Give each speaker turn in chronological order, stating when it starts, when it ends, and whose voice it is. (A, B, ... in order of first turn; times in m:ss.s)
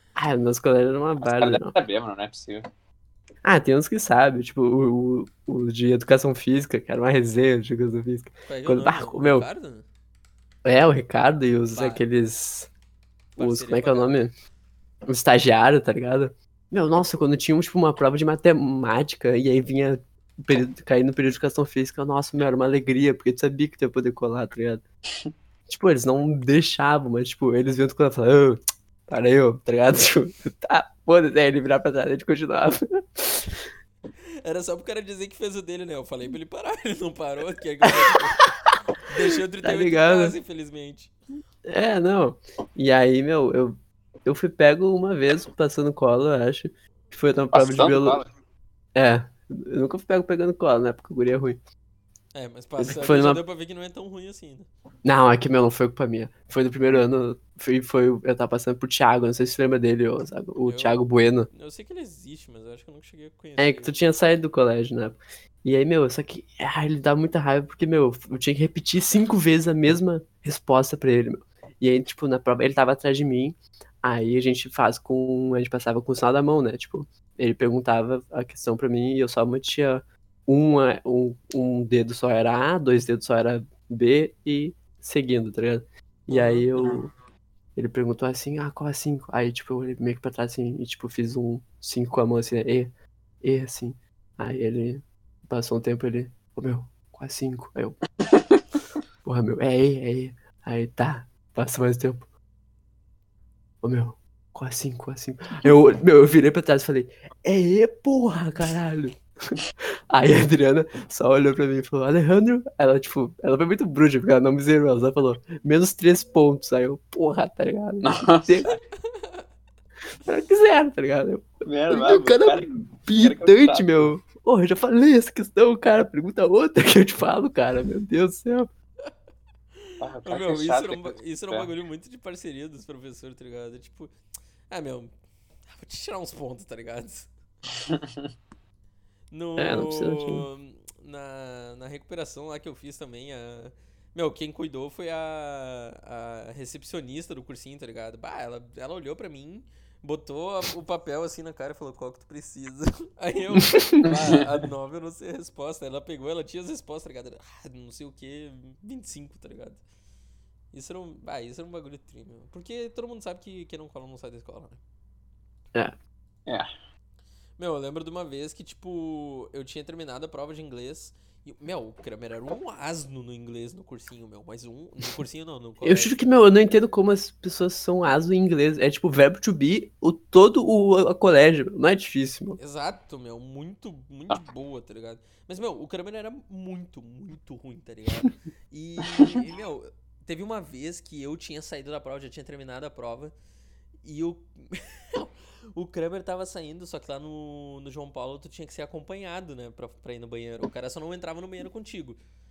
0:00.2-0:01.8 A
0:01.2-0:02.6 B
0:03.4-0:09.5 A
0:08.5-0:09.9 C
0:10.6-0:12.7 A
0:11.7-0:12.0 C
0:13.4-0:14.2 C
0:13.4-0:14.3 A
0:15.1-0:24.8 A
0:25.7-0:33.6 A
0:34.4-0:38.5 C
0:37.8-0:38.2 A
0:39.0-0:41.1 C
0:39.6-0:40.4 A
0:41.7-0:48.2 A
0:47.5-0:48.3 B
0:49.0-0:51.6 A
0:52.3-0:54.7 C
0:52.8-0:53.4 A
0:55.0-1:01.5 A
1:00.6-1:01.0 C
1:01.5-1:04.0 C
1:03.6-1:27.1 A
1:26.3-1:26.7 C
1:27.8-1:38.0 A
1:39.2-1:42.3 A
1:43.8-1:49.6 A
1:50.1-1:58.8 A
1:58.0-1:58.8 B
1:59.1-1:59.4 C
2:00.3-2:08.7 A
2:01.6-2:04.1 B
2:10.0-2:11.7 B
2:10.2-2:14.1 C
2:14.7-2:15.1 C
2:15.7-2:17.3 C
2:17.9-2:18.2 B
2:19.3-2:39.8 C
2:19.6-2:20.5 A
2:33.6-2:34.0 A
2:34.0-2:34.4 B
2:40.7-2:44.8 C
2:47.6-2:56.2 C
2:55.8-3:02.6 A
3:02.6-3:13.3 C
3:14.0-3:22.2 C